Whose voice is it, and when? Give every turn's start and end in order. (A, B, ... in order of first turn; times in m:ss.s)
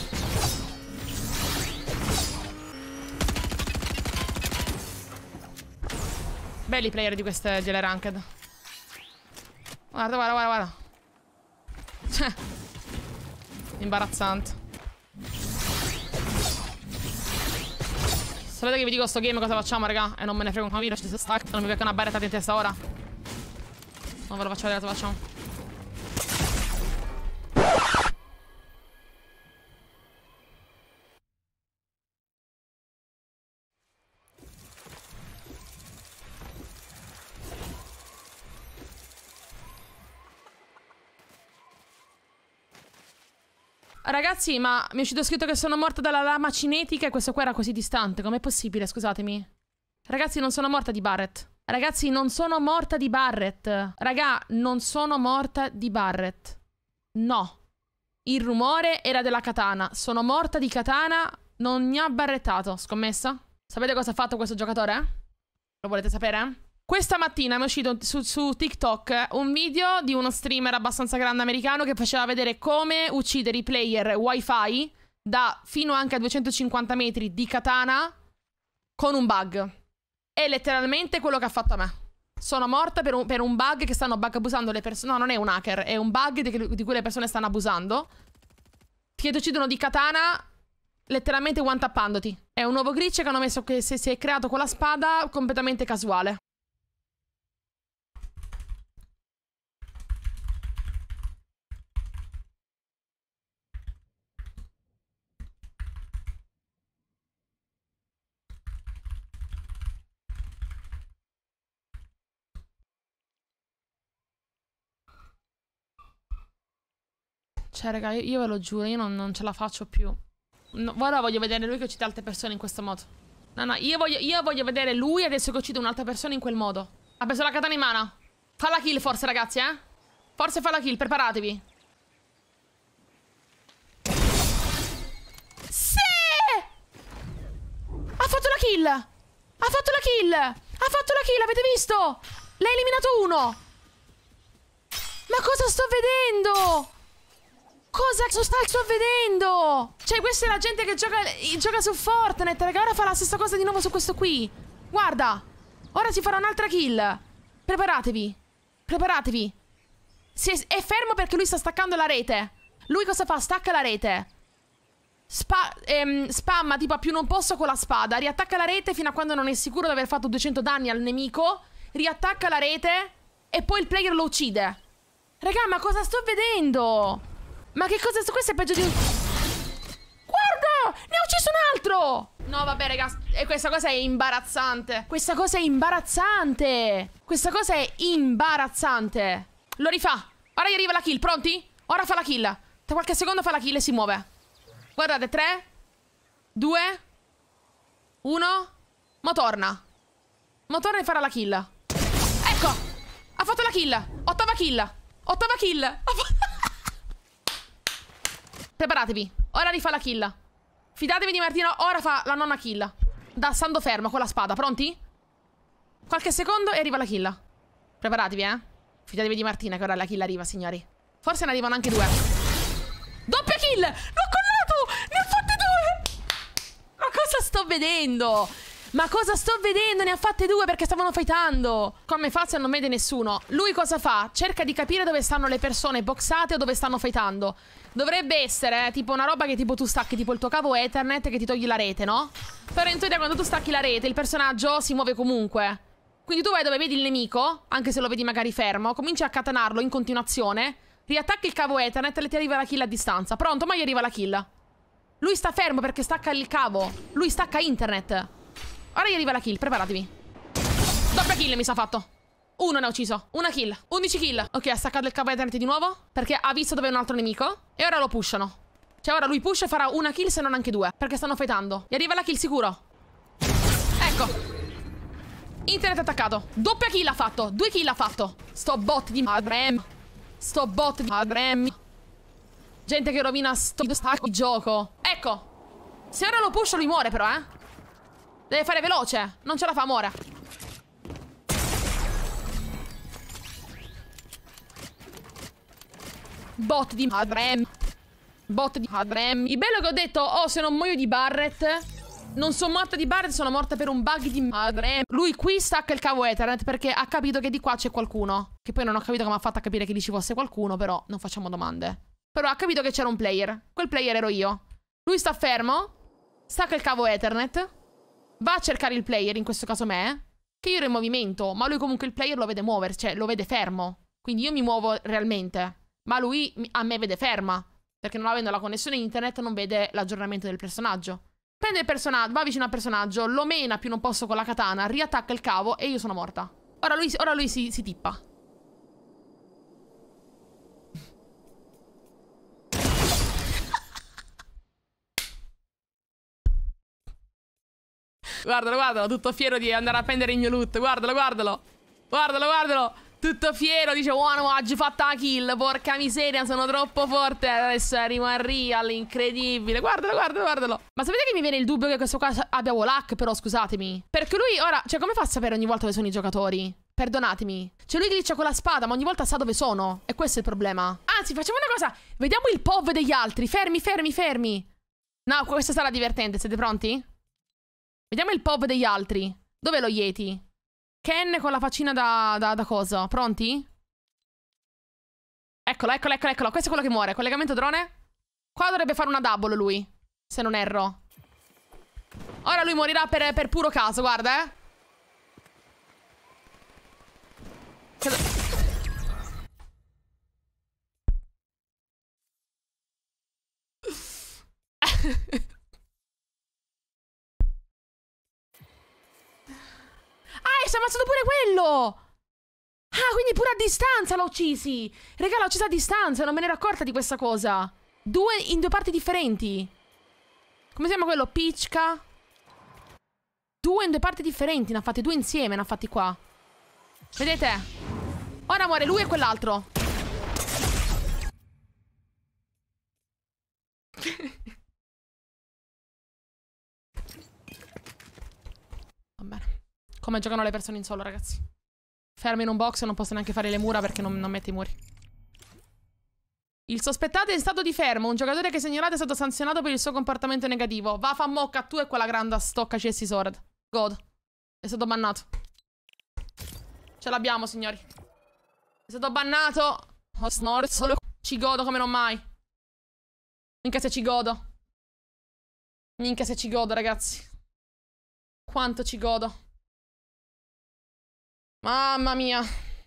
0:06.6-0:08.2 A
0:09.9-0:10.7 A
0:12.1-0:12.4 A
0:13.8-0:14.6 A
0:18.5-0:22.8 A
0:24.3-0:25.2 A
0:44.0-0:49.5 A
0:50.1-0:56.6 A
0:57.1-0:57.6 A
0:58.2-1:05.1 A
1:05.8-1:18.1 A
1:19.0-1:19.7 A
1:20.4-1:28.1 A
1:29.2-1:30.4 A
1:31.1-1:36.4 A
1:57.7-2:00.2 A
2:00.7-2:09.8 A
2:10.4-2:11.6 A
2:15.7-2:16.7 A
2:18.2-2:19.1 A
2:19.6-2:23.6 A
2:25.3-2:26.9 A
2:27.9-2:39.5 A
2:40.3-2:44.3 A
2:45.3-2:54.8 A
2:55.4-2:59.0 A
3:00.3-3:14.3 A
3:15.0-3:15.7 A
3:16.5-3:17.0 A
3:18.2-3:19.8 A
3:20.7-3:21.7 A
3:22.4-3:22.8 A
3:23.4-3:26.6 A
3:28.8-3:30.4 A
3:30.9-3:35.0 A
3:36.1-3:37.4 A
3:38.0-3:42.2 A
3:43.2-3:46.1 A
3:47.0-4:14.5 A
4:15.2-4:18.3 A
4:18.9-4:20.1 A
4:21.1-4:32.8 A
4:34.0-4:34.4 A
4:35.6-4:39.9 A
4:40.4-4:41.8 A
4:42.8-4:45.5 A
4:46.1-4:47.5 A
4:48.5-4:50.2 A
4:56.6-4:57.7 A
4:58.5-5:01.8 A
5:02.3-5:15.9 A
5:16.5-5:17.7 A
5:18.4-5:38.2 A
5:48.4-6:14.7 A
6:15.2-6:17.0 A
6:18.1-6:20.4 A
6:21.0-6:23.7 A
6:25.6-6:27.9 A
6:28.5-6:31.0 A
6:32.4-6:34.5 A
6:44.8-6:45.4 A
6:50.4-6:52.0 A
6:52.9-6:59.7 A
7:00.7-7:02.0 A
7:03.6-7:06.2 A
7:07.2-7:07.7 A
7:08.5-7:09.7 A
7:19.2-7:21.4 A
7:22.2-7:24.8 A
7:26.7-7:34.0 A
7:34.6-7:35.2 A
7:37.0-7:37.8 A
7:38.9-7:42.2 A
7:43.6-7:44.4 A
7:46.0-7:47.3 A
7:48.5-7:49.4 A
7:51.6-7:52.5 A